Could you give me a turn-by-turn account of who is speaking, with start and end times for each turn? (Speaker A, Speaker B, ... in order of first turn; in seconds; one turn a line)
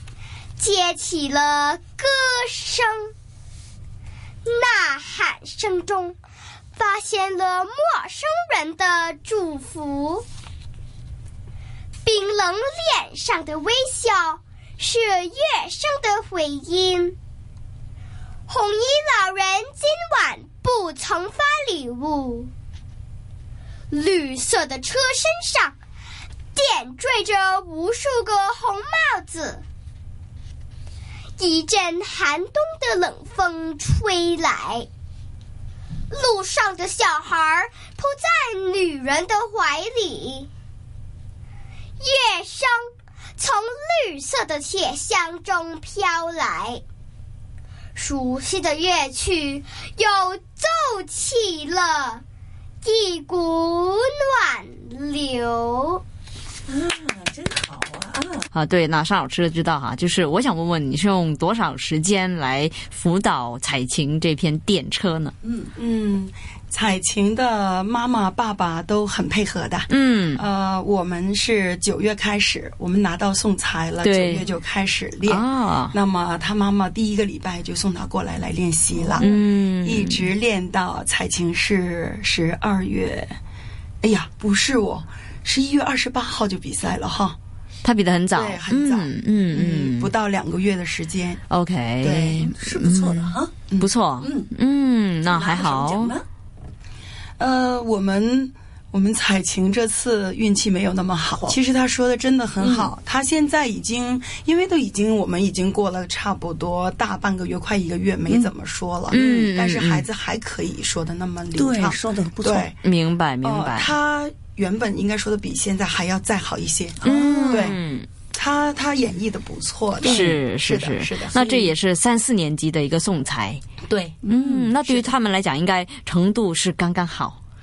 Speaker A: 0.6-3.1
Speaker A: 4.4-6.2
Speaker A: 6.8-10.2
Speaker A: 12.0-17.1
Speaker A: 18.5-22.5
Speaker A: 23.9-25.8
Speaker A: 26.5-29.6
Speaker A: 31.4-34.9
Speaker A: 36.1-40.5
Speaker A: 42.0-42.8
Speaker A: 43.4-46.8
Speaker A: 47.9-52.2
Speaker A: 52.8-56.0
Speaker B: 56.7-58.5
Speaker C: 58.5-65.3
Speaker B: 65.4-65.7
Speaker D: 65.7-83.4
Speaker C: 69.9-70.4
Speaker C: 74.0-74.5
Speaker C: 75.3-75.9
Speaker C: 79.2-80.3
Speaker D: 84.0-87.4
Speaker C: 87.8-90.1
Speaker D: 88.3-91.4
Speaker C: 91.5-96.1
Speaker D: 92.0-92.5
Speaker B: 92.4-93.5
Speaker B: 94.2-94.5
Speaker B: 95.2-96.2
Speaker D: 97.4-112.8
Speaker B: 102.6-102.9
Speaker C: 109.1-110.1
Speaker B: 109.1-109.5
Speaker B: 111.5-112.7
Speaker C: 112.8-113.9
Speaker D: 113.4-117.8
Speaker C: 117.0-118.1
Speaker B: 117.1-117.7
Speaker D: 118.3-121.7
Speaker C: 120.0-123.6
Speaker B: 120.0-120.4
Speaker B: 124.0-124.7
Speaker C: 124.3-127.4
Speaker D: 124.8-125.1